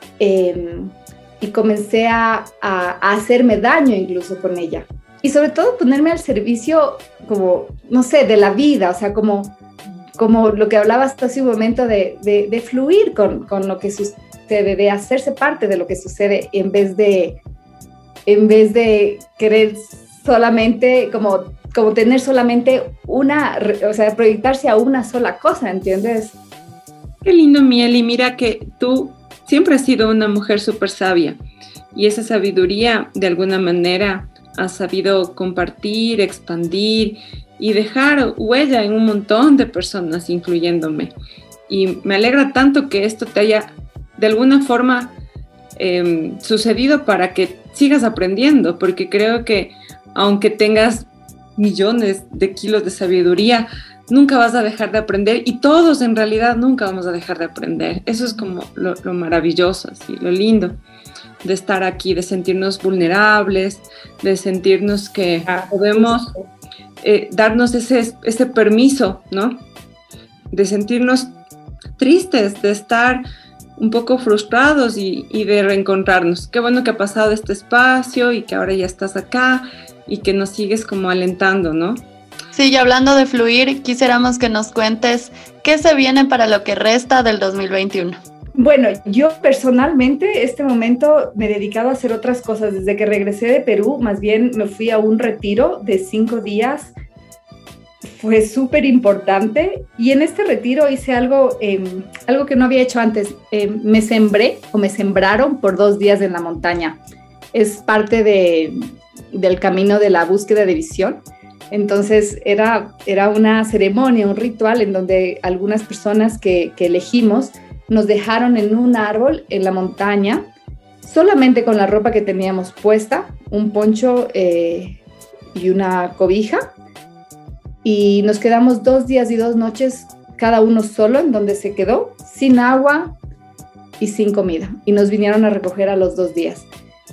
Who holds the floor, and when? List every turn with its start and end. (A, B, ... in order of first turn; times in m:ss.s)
0:00.2-0:09.6 A
0:10.2-0:17.4 A
0:18.3-0:26.4 A
0:27.2-0:31.4 B
0:31.9-0:41.1 B
0:41.7-0:45.2 B
0:45.8-1:00.8 B
1:01.4-1:06.3 B
1:05.5-1:06.4 A
1:07.0-1:09.6 B
1:10.5-1:11.4 B
1:12.0-1:13.2 B
1:13.8-1:22.0 B
1:22.5-1:28.2 C
1:28.6-1:36.9 A
1:38.1-1:47.0 A
1:47.5-1:48.8 A
1:49.3-2:00.5 A
2:01.0-2:05.0 A
2:05.5-2:06.6 A
2:07.8-2:13.1 A
2:14.0-2:16.7 A